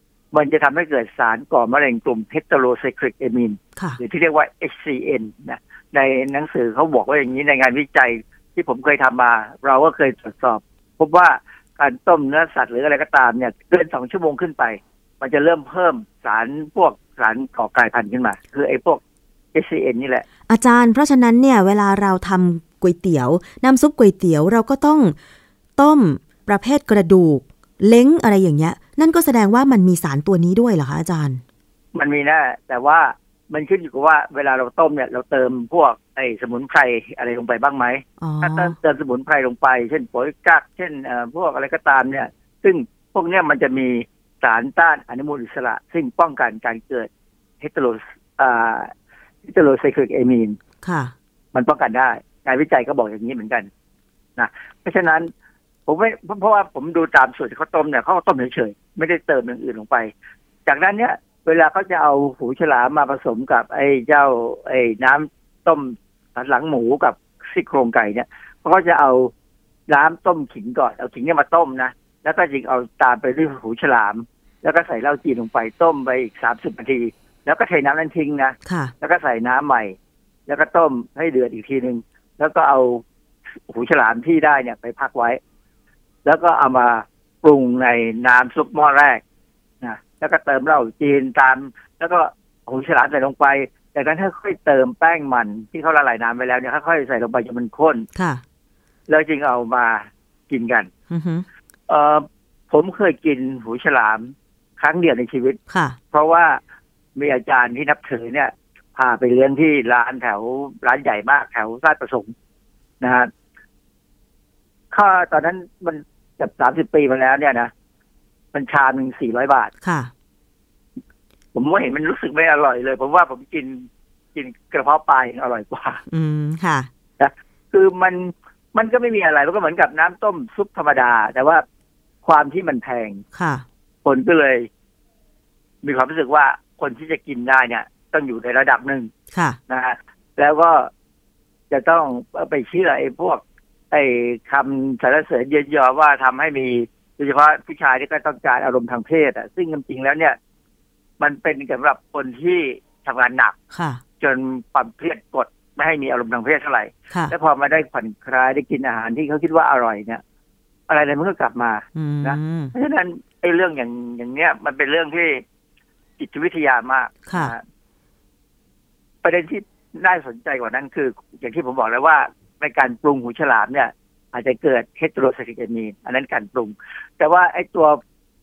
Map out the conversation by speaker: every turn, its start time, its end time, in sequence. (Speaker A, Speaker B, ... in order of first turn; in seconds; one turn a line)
Speaker A: 0.3-19.0
Speaker A: 19.5-20.2
Speaker B: 20.5-25.2
Speaker B: 25.8-31.4
Speaker A: 31.9-47.1
Speaker B: 38.2-38.8
Speaker A: 47.6-48.9
Speaker A: 49.5-50.6
Speaker B: 50.8-51.1
Speaker A: 51.5-53.7
Speaker A: 54.4-55.3
Speaker A: 55.9-60.1
Speaker A: 60.7-69.3
Speaker A: 69.9-80.0
Speaker B: 78.7-78.9
Speaker A: 80.5-83.0
Speaker A: 83.7-85.4
Speaker A: 86.2-89.2
Speaker A: 89.8-98.1
Speaker B: 98.2-98.4
Speaker A: 99.1-100.9
Speaker B: 101.1-101.5
Speaker A: 101.9-105.6
Speaker B: 105.7-106.0
Speaker A: 106.1-106.6
Speaker A: 107.2-112.3
Speaker A: 113.0-113.3
Speaker A: 114.9-117.7
Speaker A: 118.5-119.7
Speaker B: 119.8-120.1
Speaker A: 121.5-126.0
Speaker B: 126.1-126.9
Speaker A: 127.2-131.6
Speaker A: 132.2-133.2
Speaker B: 133.3-133.7
Speaker A: 134.0-134.7
Speaker A: 135.8-139.1
Speaker B: 139.3-139.6
Speaker A: 139.7-140.9
Speaker A: 141.7-150.4
Speaker A: 151.2-153.6
Speaker B: 153.7-154.0
Speaker A: 154.2-160.2
Speaker A: 160.9-165.4
Speaker B: 161.9-162.7
Speaker A: 166.2-167.6
Speaker B: 167.3-167.6
Speaker A: 169.2-178.0